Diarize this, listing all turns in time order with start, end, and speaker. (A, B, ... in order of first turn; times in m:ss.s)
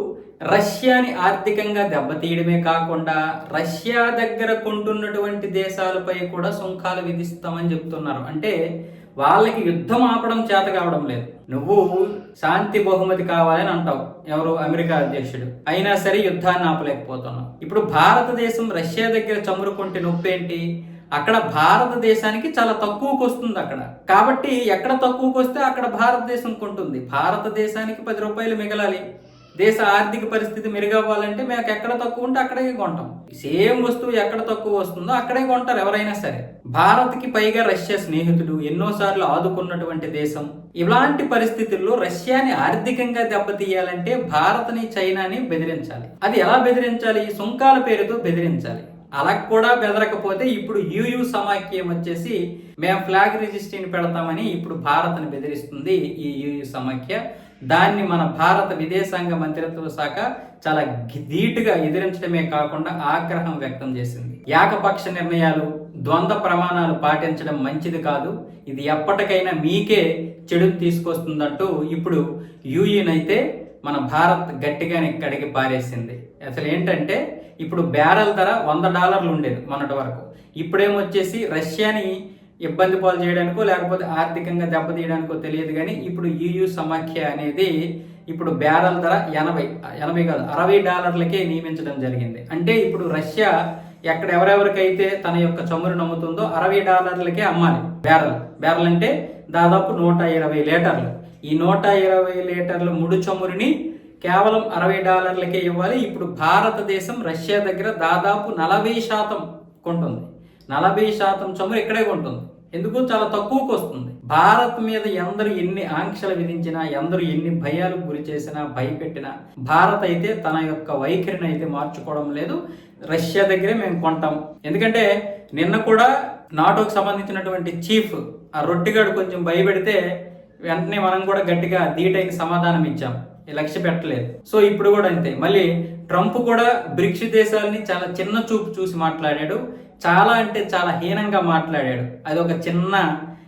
0:00.5-0:08.6 A
0:09.2-0:11.8 A
0:12.4-0:20.6 A
0:21.2-0:29.0 A
0:29.6-0:57.2 A
0:57.7-1:12.2 A
1:12.7-1:22.1 A
1:22.7-1:27.7 A
1:28.3-1:33.5 A
1:34.1-1:43.7 A
1:44.2-2:02.6 A
2:03.1-2:10.0 A
2:10.7-2:23.0 A